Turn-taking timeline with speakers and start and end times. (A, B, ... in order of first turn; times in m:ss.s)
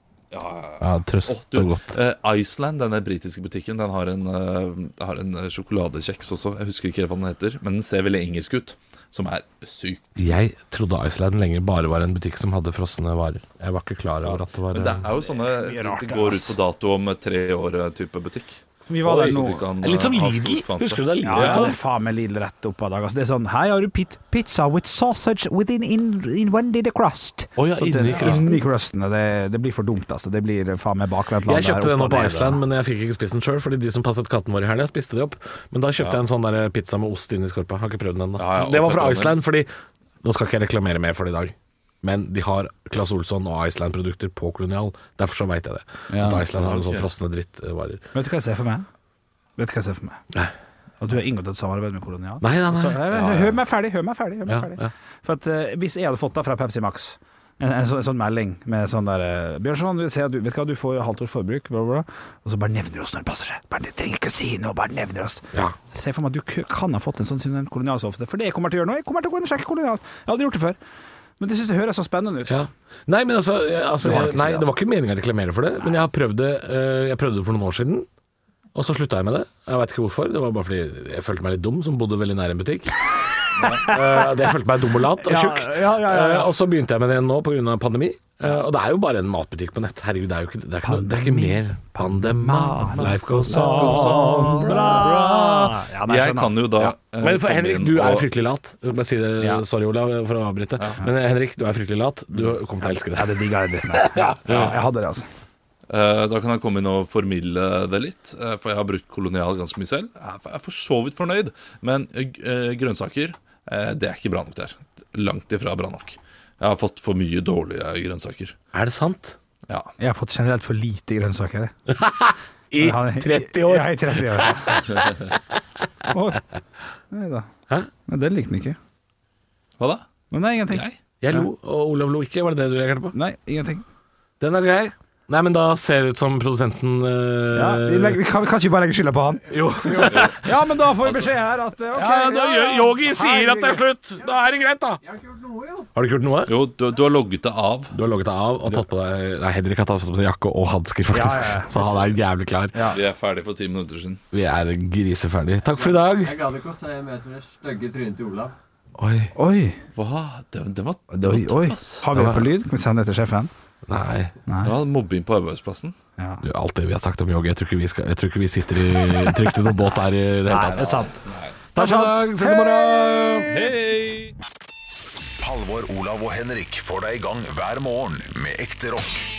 0:00.3-0:10.1 A
0:00.8-0:01.9 B
0:10.2-0:15.1 B
0:14.2-0:18.6 A
0:15.2-0:16.6 C
0:18.9-0:19.6 C
0:19.0-0:21.8 B
0:19.2-0:21.7 A
0:21.2-0:32.6 C
0:27.6-0:28.6 B
0:28.1-0:28.4 A
0:31.5-0:39.7 B
0:38.4-0:39.4 A
0:40.2-0:48.0 B
0:46.1-0:46.4 C
0:46.5-0:47.1 A
0:48.1-0:48.9 C
0:49.6-0:50.2 C
0:51.0-1:10.8 C
0:52.4-0:53.4 B
0:54.5-0:54.9 B
1:11.4-1:12.6 C
1:12.5-1:18.1 B
1:14.0-1:14.7 C
1:18.8-1:23.0 B
1:23.7-1:24.2 C
1:23.7-1:34.9 B
1:25.2-1:26.5 C
1:30.8-1:36.6 C
1:33.6-1:38.3 A
1:36.8-1:43.3 B
1:42.8-1:45.3 C
1:44.0-1:44.7 B
1:45.9-1:58.6 A
1:58.7-1:59.4 B
2:00.0-2:01.7 C
2:01.9-2:05.3 B
2:02.8-2:04.8 C
2:06.1-2:06.4 C
2:07.1-2:07.5 C
2:08.1-2:08.8 C
2:09.8-2:10.1 A
2:10.3-2:11.5 C
2:11.2-2:13.2 B
2:13.1-2:13.8 C
2:14.4-2:18.2 B
2:17.5-2:23.8 C
2:19.5-2:20.5 B
2:20.0-2:20.4 A
2:22.0-2:25.0 B
2:25.0-2:25.9 D
2:25.9-2:26.6 B
2:26.5-2:28.0 A
2:27.9-2:32.7 B
2:31.1-2:32.0 C
2:32.7-2:33.0 C
2:32.9-2:34.2 A
2:34.3-2:36.5 B
2:35.7-2:38.5 D
2:39.0-2:39.3 B
2:39.4-2:39.8 C
2:40.0-2:42.1 A
2:41.1-2:43.5 C
2:42.1-2:42.5 B
2:43.9-2:44.4 B
2:44.5-2:44.8 C
2:44.6-2:46.0 A
2:46.2-2:46.4 C
2:46.4-2:51.1 B
2:50.5-2:51.2 C
2:50.8-2:51.6 A
2:51.8-2:53.2 C
2:51.8-2:53.7 B
2:53.5-2:54.3 A
2:55.4-2:59.3 E